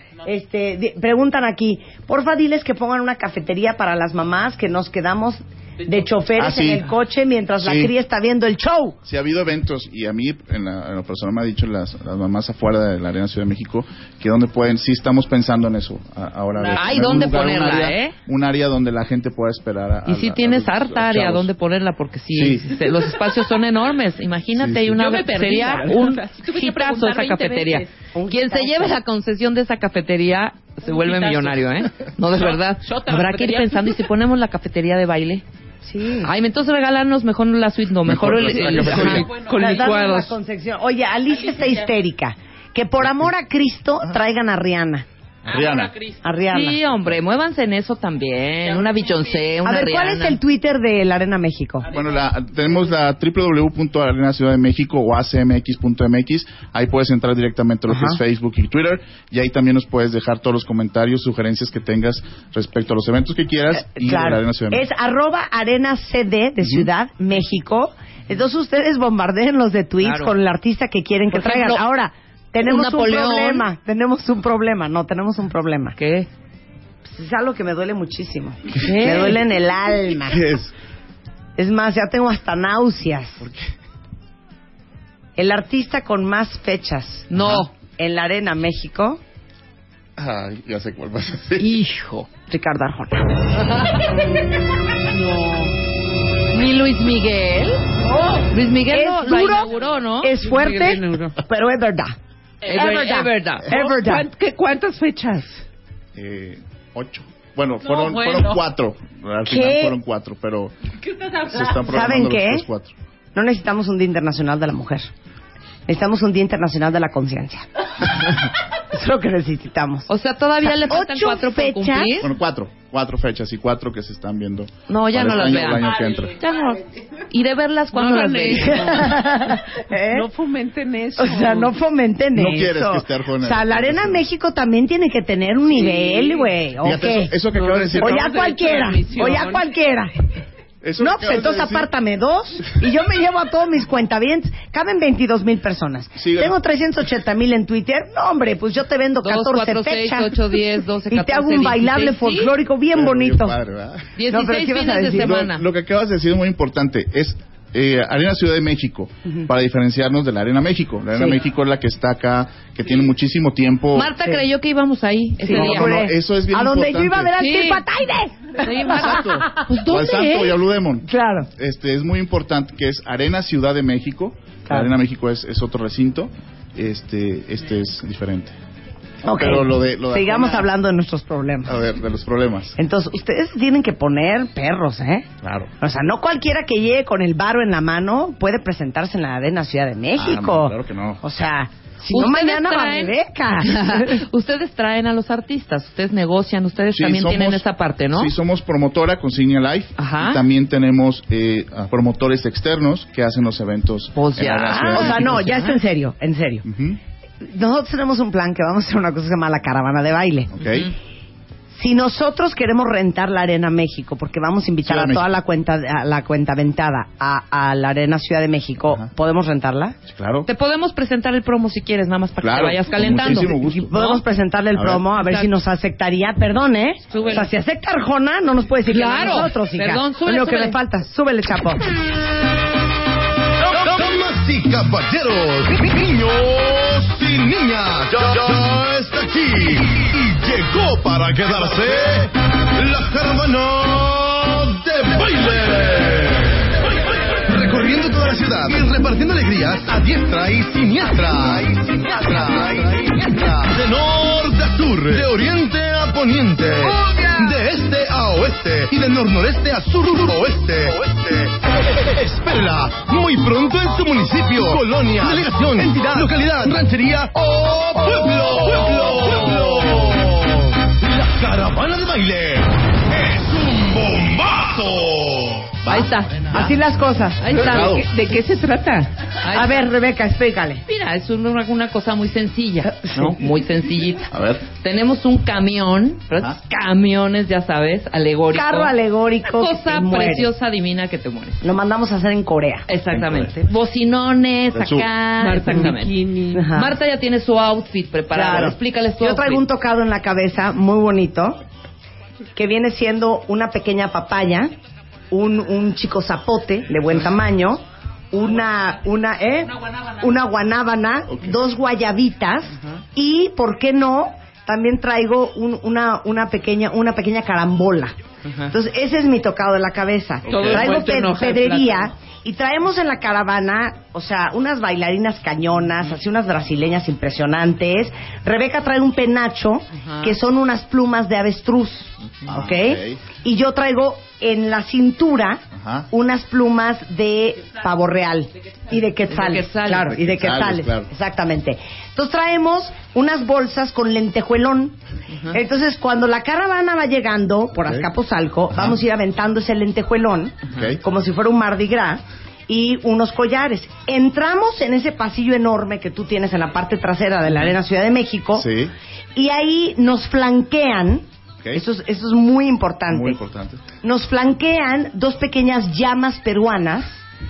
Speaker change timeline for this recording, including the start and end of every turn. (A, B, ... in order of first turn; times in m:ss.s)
0:00.2-0:09.0 A
0:06.4-0:06.8 B
0:07.6-0:07.9 B
0:09.0-0:21.5 B
0:16.6-0:17.2 C
0:16.8-0:18.1 D
0:20.0-0:35.4 D
0:22.3-0:22.8 B
0:24.6-0:24.9 B
0:24.9-0:27.9 C
0:28.1-0:29.0 A
0:30.8-0:31.7 C
0:32.3-0:33.8 C
0:35.8-0:36.3 A
0:36.2-0:39.3 D
0:38.0-0:39.3 B
0:38.4-0:40.3 C
0:39.4-0:45.0 A
0:41.3-0:41.6 C
0:45.4-0:45.9 B
0:45.5-0:46.2 C
0:46.2-0:46.8 A
0:46.5-0:50.4 D
0:48.6-0:49.2 C
0:49.6-0:51.9 A
0:51.9-1:04.8 B
0:57.9-0:58.2 A
1:03.7-1:16.0 A
1:06.6-1:06.9 B
1:10.0-1:10.3 D
1:11.3-1:11.8 D
1:12.6-1:13.7 D
1:16.0-1:16.3 D
1:17.0-1:20.4 A
1:18.7-1:19.4 D
1:20.2-1:20.7 B
1:21.6-1:23.4 A
1:23.4-1:23.7 B
1:25.4-1:27.3 A
1:27.3-1:27.7 D
1:27.4-1:27.7 B
1:27.8-1:29.2 A
1:30.2-1:31.7 B
1:31.6-1:32.3 D
1:32.5-1:33.4 A
1:35.1-1:35.7 C
1:36.5-1:37.8 D
1:38.1-1:39.7 A
1:38.5-1:40.3 D
1:40.2-1:42.1 A
1:40.3-1:41.4 C
1:42.6-1:45.6 C
1:42.7-1:43.7 D
1:42.8-1:44.3 A
1:46.1-1:50.7 B
1:47.8-1:48.6 C
1:49.4-1:50.0 A
1:51.2-1:51.6 C
1:51.4-1:52.9 B
1:51.8-1:52.6 A
1:53.3-1:55.1 A
1:55.9-1:58.4 A
1:58.9-2:00.1 A
2:00.1-2:02.3 D
2:00.6-2:02.1 A
2:02.2-2:06.3 B
2:04.9-2:09.2 D
2:07.9-2:11.7 C
2:08.6-2:10.3 A
2:11.1-2:17.4 A
2:12.3-2:14.3 B
2:15.9-2:16.6 C
2:16.8-2:18.3 B
2:17.5-2:19.7 C
2:18.0-2:20.1 A
2:20.8-2:21.9 B
2:21.0-2:30.6 A
2:26.2-2:26.6 B
2:29.2-2:32.5 D
2:31.1-2:33.6 A
2:32.9-2:34.1 B
2:34.2-2:35.6 D
2:34.3-2:35.3 A
2:35.2-2:44.1 B
2:43.9-2:46.0 D
2:45.4-2:49.5 A
2:45.5-2:47.3 B
2:47.4-2:47.8 D
2:48.6-2:50.6 D
2:49.0-2:58.6 B
2:51.0-2:51.5 A
2:59.2-3:01.8 A
2:59.3-3:00.7 B
3:01.6-3:02.8 B
3:02.8-3:05.3 A
3:05.4-3:05.7 B
3:05.8-3:14.1 A
3:10.2-3:11.2 B
3:12.1-3:18.3 D
3:16.9-3:25.3 B
3:20.0-3:20.4 D
3:24.1-3:25.8 D
3:24.8-3:26.6 A
3:26.6-3:27.0 B
3:27.4-3:30.5 A
3:30.5-3:30.9 B
3:31.7-3:40.0 A
3:34.8-3:35.3 B
3:40.1-3:40.5 B
3:40.4-3:44.2 D
3:42.4-3:43.9 B
3:43.1-3:51.9 A
3:44.7-3:45.1 B
3:45.2-3:45.5 D
3:47.1-3:47.5 D
3:48.8-3:50.8 D
3:53.6-4:35.8 E
4:35.8-4:36.8 B
4:35.8-4:36.8 D
4:36.5-4:37.5 A
4:37.4-4:38.0 D
4:37.4-4:38.1 B
4:37.6-4:39.1 C
4:39.3-4:39.9 D
4:39.5-4:40.8 A
4:40.8-4:48.9 D
4:42.8-4:43.3 A
4:44.3-4:44.6 B
4:48.5-4:50.5 A
4:49.4-4:51.6 D
4:51.6-4:52.9 A
4:52.9-4:56.2 D
4:53.1-4:53.5 B
4:54.7-4:55.1 B
4:55.4-4:56.7 C
4:56.5-4:56.9 A
4:56.7-4:59.6 D
4:58.3-5:01.6 A
5:02.6-5:04.7 A
5:05.3-5:07.8 A
5:08.3-5:18.2 A
5:18.4-5:18.7 D
5:18.7-5:45.0 A
5:20.5-5:21.0 B
5:20.5-5:22.1 C
5:30.0-5:30.4 D
5:32.4-5:33.2 B
5:35.7-5:36.1 B
5:39.3-5:40.1 D
5:40.1-5:41.1 B
5:45.5-5:58.7 A
5:50.7-5:51.0 B
5:58.5-5:58.9 B
5:59.4-6:01.2 A
6:01.7-6:03.4 A
6:03.1-6:03.8 B
6:04.0-6:07.2 A